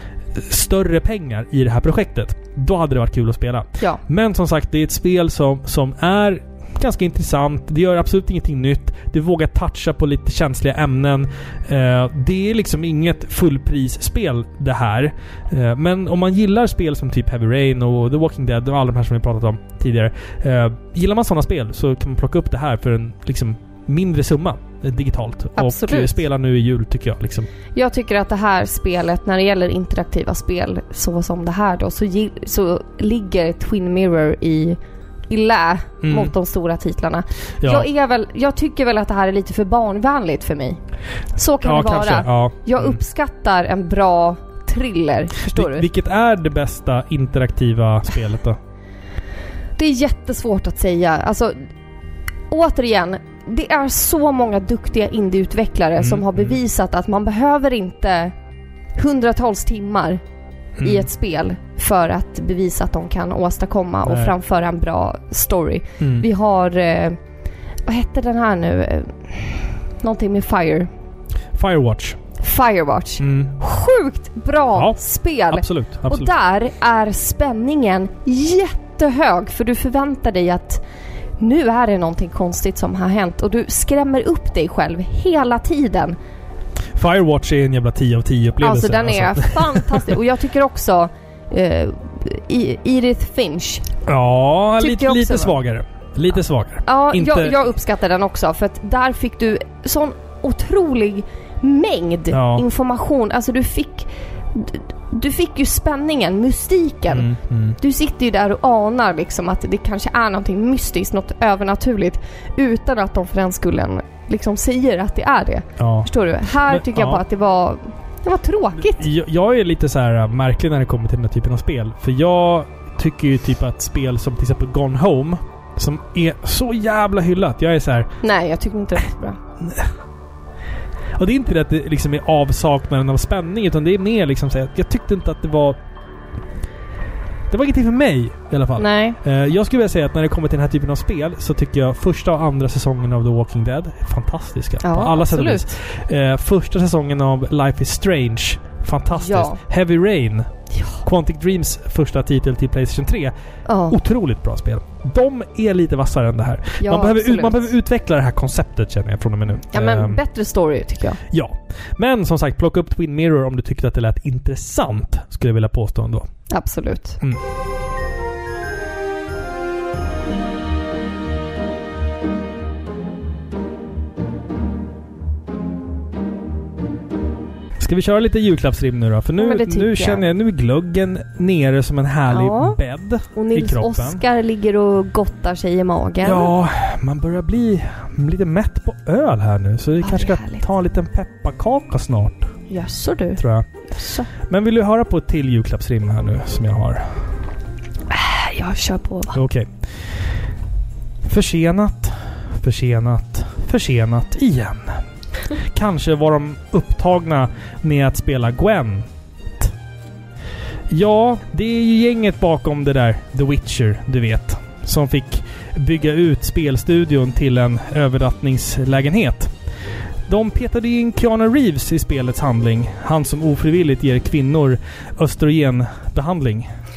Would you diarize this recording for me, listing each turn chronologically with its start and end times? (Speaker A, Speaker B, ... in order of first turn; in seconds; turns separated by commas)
Speaker A: 0.3-27.5, Speaker B: 25.6-26.2, Speaker B: 27.7-40.8, Speaker A: 36.0-36.3, Speaker A: 37.6-37.9, Speaker B: 41.4-45.9, Speaker A: 41.6-43.0, Speaker A: 45.4-48.6, Speaker B: 49.8-51.6, Speaker B: 52.5-58.4, Speaker A: 56.0-56.6, Speaker B: 59.0-60.2, Speaker A: 60.8-61.1, Speaker B: 60.8-67.2, Speaker A: 64.0-64.3, Speaker A: 66.0-66.3, Speaker B: 67.9-70.9, Speaker A: 71.6-72.2, Speaker B: 72.4-80.8, Speaker A: 73.2-73.6, Speaker A: 74.7-76.3, Speaker B: 81.4-86.2, Speaker A: 87.0-90.1, Speaker B: 88.6-93.9, Speaker A: 94.1-97.6, Speaker B: 94.8-95.5, Speaker B: 96.9-119.1, Speaker A: 102.3-102.7, Speaker A: 107.1-107.8, Speaker A: 115.8-116.1, Speaker A: 116.6-117.2, Speaker A: 118.8-128.1, Speaker B: 128.2-129.4, Speaker A: 129.6-129.9, Speaker A: 131.2-135.8, Speaker A: 137.5-150.5, Speaker B: 138.8-139.2, Speaker B: 144.8-145.7, Speaker B: 149.2-149.6, Speaker B: 150.7-151.0, Speaker A: 151.0-153.3, Speaker B: 153.7-154.0, Speaker A: 153.9-160.2, Speaker B: 156.8-157.7, Speaker B: 159.7-161.2, Speaker A: 161.3-166.3, Speaker B: 166.5-167.2, Speaker A: 177.8-184.2, Speaker B: 179.4-180.3, Speaker B: 182.3-182.8, Speaker B: 183.3-186.5, Speaker A: 186.2-192.5, Speaker B: 190.0-190.7, Speaker B: 192.7-194.3, Speaker A: 193.4-193.7, Speaker A: 194.4-197.1, Speaker B: 198.1-199.4, Speaker A: 199.3-199.7, Speaker A: 201.3-205.0, Speaker A: 205.6-209.1, Speaker A: 210.9-219.5, Speaker A: 220.3-226.7